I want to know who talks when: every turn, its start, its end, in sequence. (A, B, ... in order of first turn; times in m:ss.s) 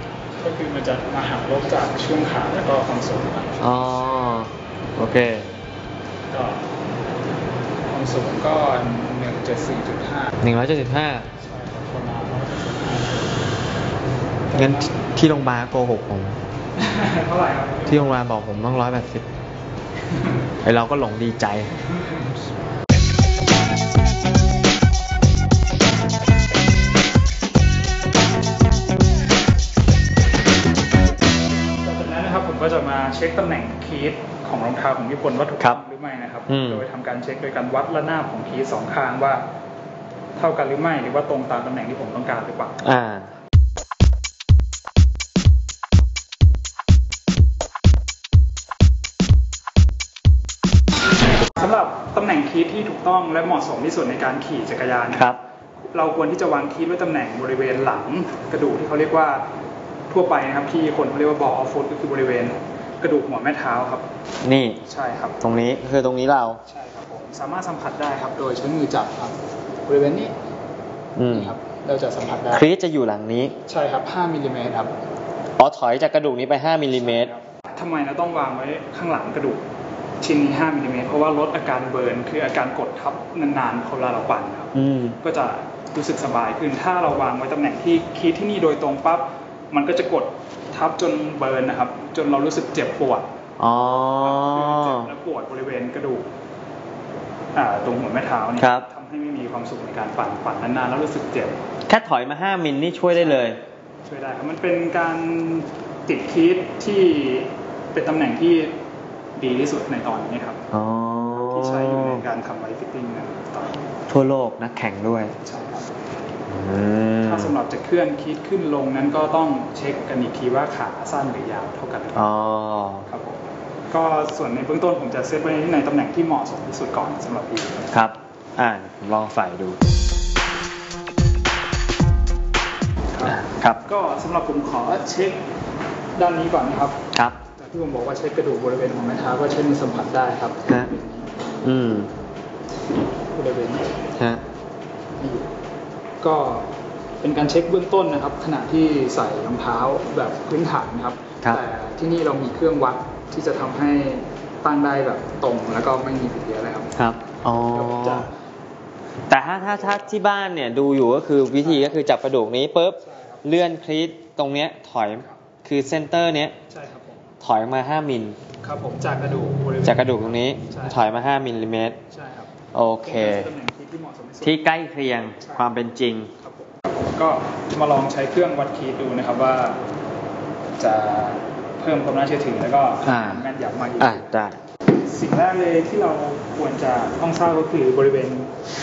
0:00.4-0:03.7 A
0:03.6-0:05.5 B
0:06.3-0:06.7 A
0:07.9-0:10.3 A
0:10.4-0:11.3 B
0:11.4-0:13.5 A
0:14.5-0:15.0 A
0:14.6-0:16.4 B
0:16.8-0:18.2 A
0:17.9-0:19.3 B
0:20.1-0:20.5 A
0:20.6-0:21.7 B
0:21.8-0:22.4 A
0:31.8-0:39.4 A
0:36.5-0:36.8 B
0:40.4-0:42.9 A
0:42.8-0:43.3 B
0:51.6-0:55.3 A
0:55.1-0:55.4 B
0:55.9-0:59.5 A
1:00.1-1:04.1 A
1:04.4-1:04.8 B
1:04.8-1:05.6 A
1:05.4-1:06.6 B
1:06.7-1:10.3 A
1:11.2-1:11.6 B
1:11.3-1:12.7 A
1:12.5-1:13.6 B
1:13.7-1:15.0 A
1:15.6-1:17.3 B
1:16.9-1:19.6 A
1:20.2-1:33.3 A
1:24.8-1:25.2 B
1:33.6-1:35.1 B
1:34.2-1:36.3 A
1:37.6-1:41.6 A
1:38.6-1:38.9 B
1:41.9-1:43.6 B
1:43.1-1:48.8 A
1:49.4-1:50.6 A
1:50.7-1:52.2 B
1:51.3-1:53.8 A
1:54.1-1:55.3 B
1:55.4-1:56.0 A
1:56.5-1:57.5 B
1:57.2-2:02.3 A
2:02.2-2:03.1 B
2:03.1-2:07.9 A
2:07.9-2:09.8 B
2:13.1-2:15.4 A
2:13.2-2:13.8 B
2:16.2-2:17.0 A
2:17.1-2:17.4 B
2:17.6-2:21.3 A
2:21.6-2:22.1 B
2:23.4-2:24.0 A
2:24.2-2:24.4 B
2:25.2-2:25.5 A
2:26.2-2:36.9 A
2:37.0-2:38.3 B
2:37.7-2:38.3 A
2:39.3-2:46.6 B
2:39.6-2:40.1 A
2:41.6-2:42.0 A
2:43.0-2:43.4 A
2:46.7-2:47.3 A
2:47.4-2:48.4 B
2:48.6-2:51.0 A
2:49.8-2:52.0 B
2:52.1-2:52.5 A
2:52.7-2:53.5 B
2:53.0-2:54.6 A
2:54.4-2:56.3 B
2:55.4-2:55.7 A
2:56.4-2:59.8 A
3:00.8-3:04.3 A
3:03.0-3:03.5 B
3:04.0-3:04.6 B
3:05.0-3:08.5 A